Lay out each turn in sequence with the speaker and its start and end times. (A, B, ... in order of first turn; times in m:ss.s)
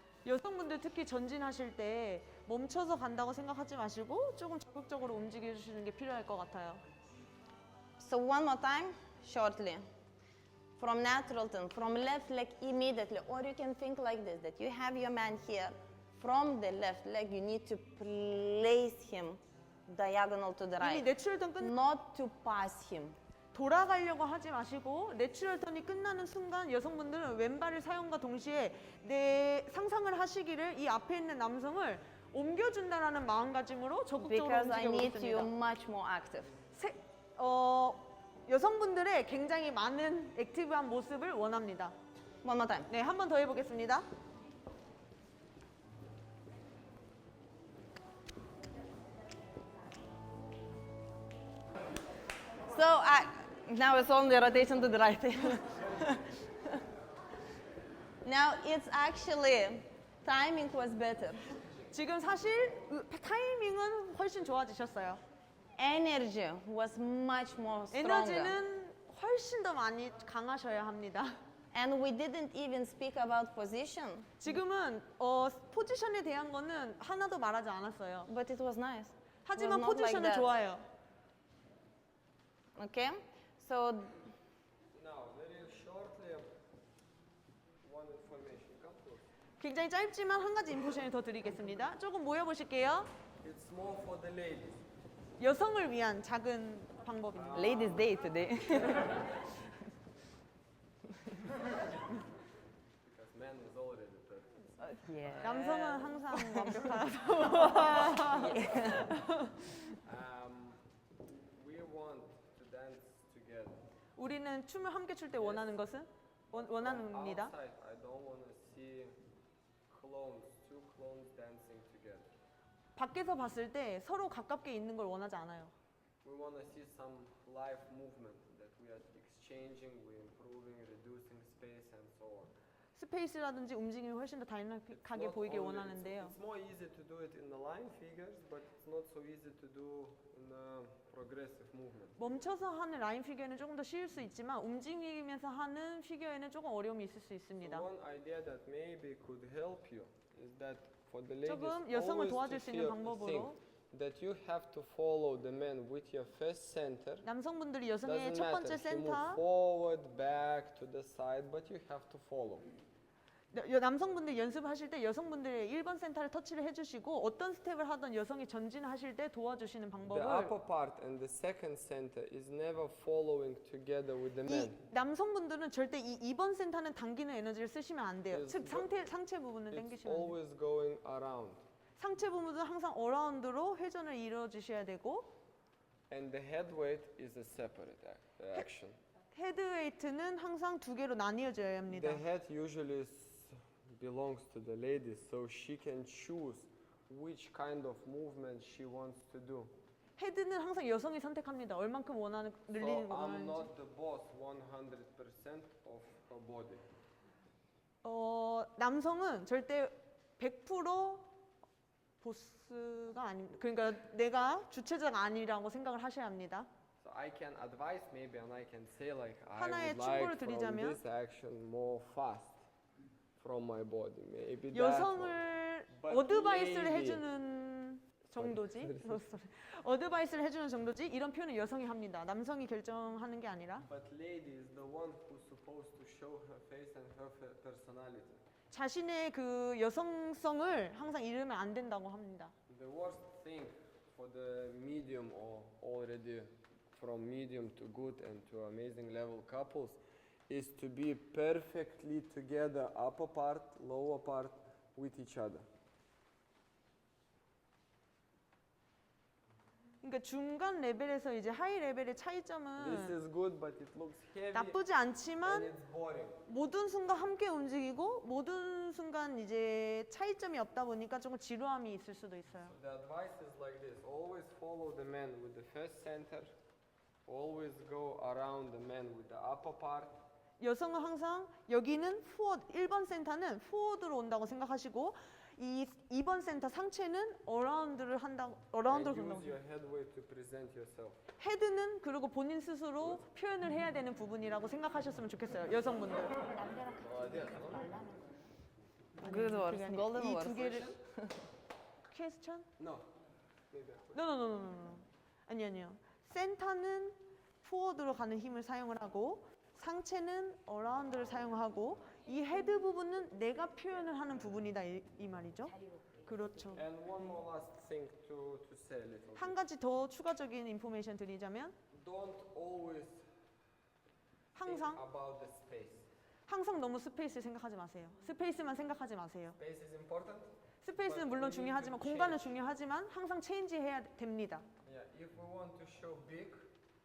0:00.2-0:06.8 A
0:08.0-0:09.8 B
0:10.8-0:23.2 B
0:20.8-0:21.7 A
0:23.5-0:35.5 A
0:34.2-0:36.5 B
0:36.7-0:42.0 A
0:42.4-0:42.9 B
0:42.9-0:44.0 A
0:52.7-0:56.8 B
0:58.2-1:01.4 B
1:01.9-1:05.2 A
1:05.8-1:08.6 B
1:07.9-1:11.3 A
1:11.7-1:14.4 B
1:14.4-1:18.3 A
1:18.3-1:20.6 B
1:19.4-1:20.8 A
1:22.8-1:24.3 B
1:24.9-1:26.5 C
1:27.8-1:29.2 C
1:29.6-1:33.1 A
1:33.4-1:34.8 C
1:35.4-1:37.8 A
1:37.3-1:38.2 C
1:37.5-1:39.8 B
1:43.0-1:45.0 C
1:44.8-1:49.8 B
1:45.4-1:49.5 A
1:50.0-1:50.8 C
1:51.5-1:53.8 C
1:54.2-1:57.5 A
1:55.4-1:55.8 C
1:56.5-1:59.2 C
1:59.9-2:02.3 C
2:03.0-2:05.7 A
2:06.2-2:12.5 C
2:13.0-2:16.4 A
2:14.9-2:22.2 C
2:22.2-2:27.9 A
2:27.6-2:37.3 C
2:31.5-2:33.6 A
2:37.2-2:39.4 A
2:38.0-2:42.7 C
2:43.5-2:50.5 A
2:50.1-2:54.8 C
2:54.5-3:00.3 A
2:58.3-2:58.9 C
2:59.7-3:01.6 C
3:02.0-3:05.3 A
3:06.1-3:09.0 C
3:09.3-3:12.2 A
3:11.9-3:19.7 C
3:20.2-3:23.7 A
3:22.7-3:26.9 C
3:28.0-3:31.3 A
3:32.2-3:36.7 A
3:37.0-3:42.6 C
3:39.6-3:41.0 A
3:43.4-3:47.2 C
3:44.7-3:53.9 A
3:48.4-3:49.2 C
3:53.9-3:58.4 C
3:58.7-4:02.5 A
4:02.7-4:15.7 C
4:20.0-4:23.2 A
4:22.8-4:24.8 C
4:24.5-4:25.7 A
4:25.4-4:26.4 C
4:26.5-4:32.8 A
4:32.5-4:36.5 C
4:37.3-4:40.2 C
4:40.6-4:49.6 A
4:48.9-4:51.2 C
4:51.4-4:56.5 A
4:56.8-4:58.0 C
4:59.2-5:01.0 A
4:59.2-5:01.5 B
5:02.1-5:02.7 A
5:02.8-5:03.0 C
5:03.7-5:04.2 C
5:04.1-5:16.8 A
5:16.7-5:19.6 C
5:19.4-5:21.8 A
5:21.9-5:23.3 C
5:24.6-5:25.0 A
5:24.6-5:26.1 C
5:26.5-5:29.6 A
5:29.6-5:32.6 C
5:30.8-5:34.7 A
5:34.8-5:36.7 C